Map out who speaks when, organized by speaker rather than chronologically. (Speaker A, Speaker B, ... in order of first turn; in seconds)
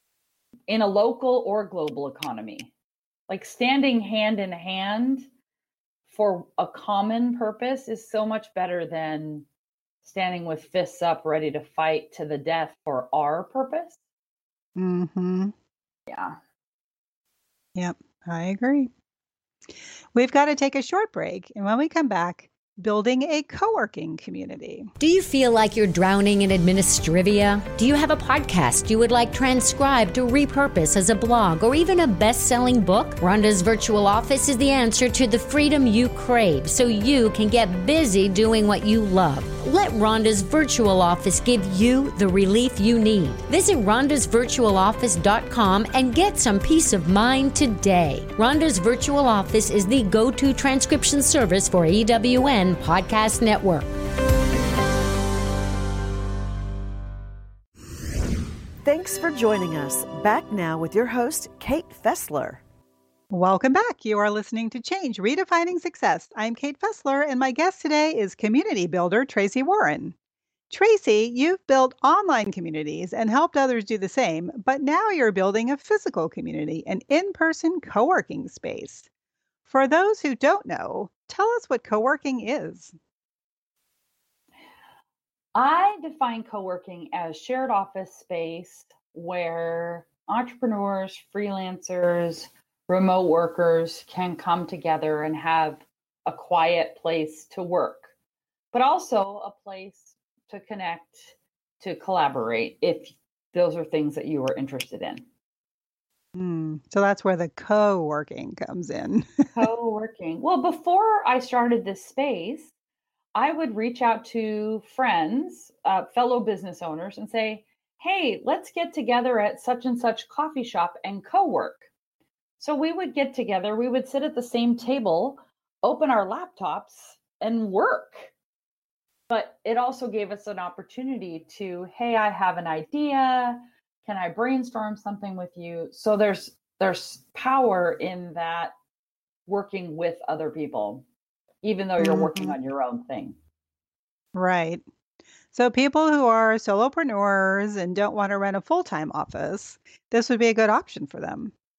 Speaker A: 0.7-2.7, 3.3-5.3, 6.1-9.5, 10.0-14.0, 16.1-16.4, 85.5-98.1, 98.7-105.2, 109.5-112.7, 113.3-121.9, 122.6-128.3, 129.3-138.7, 139.5-141.1, 141.6-143.4
Speaker B: 14.8-15.5, 17.8-18.9, 20.1-24.9, 63.3-70.2, 70.7-79.1, 79.7-82.9, 106.3-109.6, 142.0-142.6, 144.3-144.8, 145.5-151.5
Speaker C: 25.0-53.9
Speaker D: 58.8-62.6